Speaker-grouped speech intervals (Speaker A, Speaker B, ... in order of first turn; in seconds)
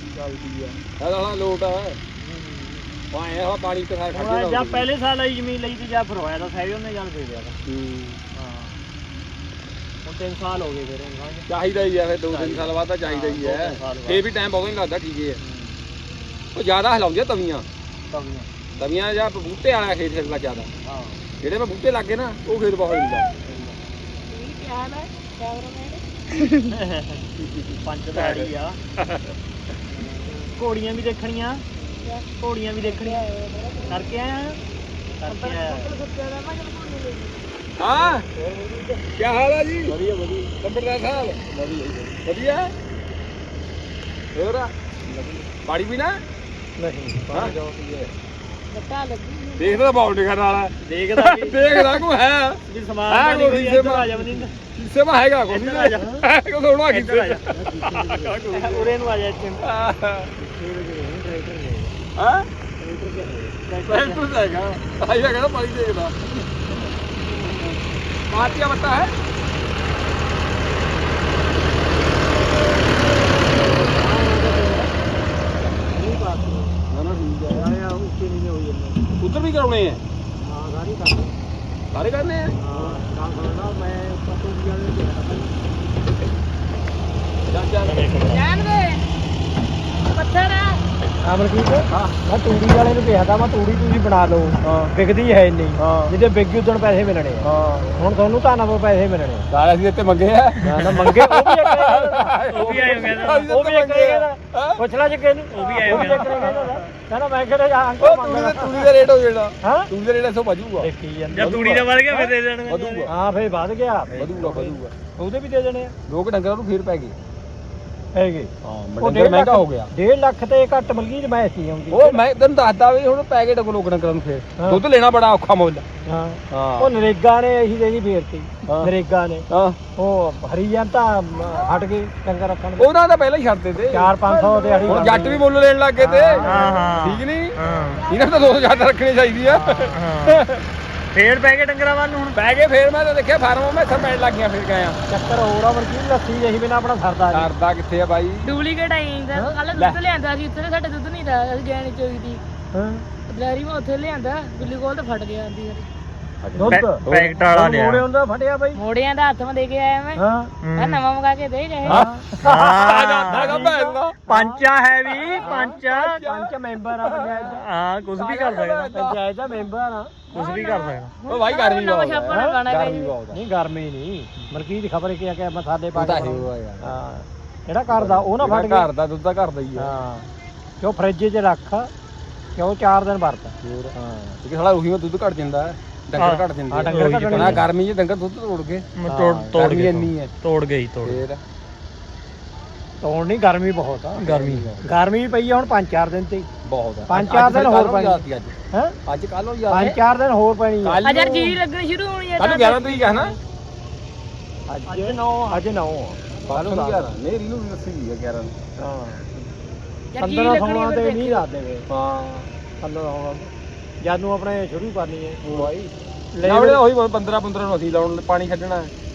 Speaker A: 0.1-2.0, 3.1-4.8, 7.7-8.2, 11.5-15.4, 16.5-17.6, 18.8-20.7, 21.4-23.3, 27.4-28.5, 37.8-38.2, 39.1-39.9, 40.5-42.7, 44.3-44.7, 45.5-46.2, 47.3-47.6, 49.6-57.5, 59.6-60.3, 62.1-62.5, 63.9-66.2, 67.3-67.8, 68.3-69.1, 76.9-77.7, 79.2-80.0, 81.9-82.5, 87.5-88.2, 91.9-92.2, 94.6-94.9, 95.8-96.1, 97.4-97.9, 99.5-104.8, 105.8-106.4, 108.0-111.9, 112.7-113.1, 114.1-114.9, 116.1-117.2, 118.6-119.9, 121.9-125.8, 126.5-126.9, 128.7-128.9, 129.5-129.8, 132.8-140.6, 142.3-145.0, 147.3-148.5, 156.4-157.3, 161.9-164.1, 165.1-166.5, 167.0-167.5, 168.2-169.1, 171.3-173.4, 175.9-176.9, 177.9-179.9, 183.6-188.9, 189.5-190.3, 191.0-191.4, 194.1-194.9, 196.6-198.5, 199.1-200.0, 200.8-201.6, 202.4-203.3, 206.5-208.6, 211.9-212.5, 215.4-215.9, 216.4-218.9
Speaker B: 2.2-2.9, 4.1-7.6, 8.3-8.8, 10.0-11.5, 12.3-14.2, 15.3-15.8, 20.9-21.1, 26.7-27.2, 27.8-28.8, 29.9-31.6, 32.4-33.2, 33.9-34.6, 35.2-35.9, 50.9-52.1, 52.7-54.5, 55.5-56.2, 56.9-59.6, 63.7-64.2, 82.6-83.0, 87.8-88.4, 100.8-101.1, 102.5-104.2, 105.5-106.8, 111.3-113.1, 136.4-138.0, 139.9-140.5, 141.1-142.4, 156.7-158.0, 160.6-161.0, 162.4-166.2, 167.5-169.1, 170.3-171.1, 186.2-187.6, 188.9-191.2, 194.2-194.7, 204.8-205.6
Speaker C: 18.1-18.5, 23.5-23.7, 38.4-38.7, 39.9-40.5, 45.1-45.4, 46.8-48.1, 57.5-58.8, 60.4-62.0, 62.8-63.7, 73.6-74.9, 75.8-76.8, 77.5-79.0, 80.4-81.3, 82.6-85.6, 91.2-99.5, 100.6-102.3, 103.9-108.9, 109.6-109.9, 110.8-112.3, 113.1-115.9, 118.1-122.2, 124.6-124.8, 126.0-132.9, 133.9-135.4, 136.0-136.9, 139.4-140.0, 145.1-147.5, 152.7-153.0, 156.5-158.8, 160.2-160.5, 161.8-162.8, 163.3-163.7, 164.2-164.6, 165.3-167.6, 168.8-170.3, 172.3-172.6, 173.3-178.9, 179.8-180.3, 180.8-181.9, 182.6-184.4, 186.7-187.7, 189.1-189.6, 193.0-196.5, 197.1-199.0, 199.7-201.0, 204.7-207.1, 208.8-209.2, 210.2-211.9, 212.8-216.8
Speaker D: 24.3-26.7, 32.0-32.3, 32.8-34.1, 35.2-37.6, 48.7-49.9, 88.2-89.0, 90.1-90.8, 137.9-138.9, 148.4-152.4, 153.3-155.8, 158.7-160.2, 160.8-162.1, 170.3-173.1, 201.0-203.4, 210.1-211.4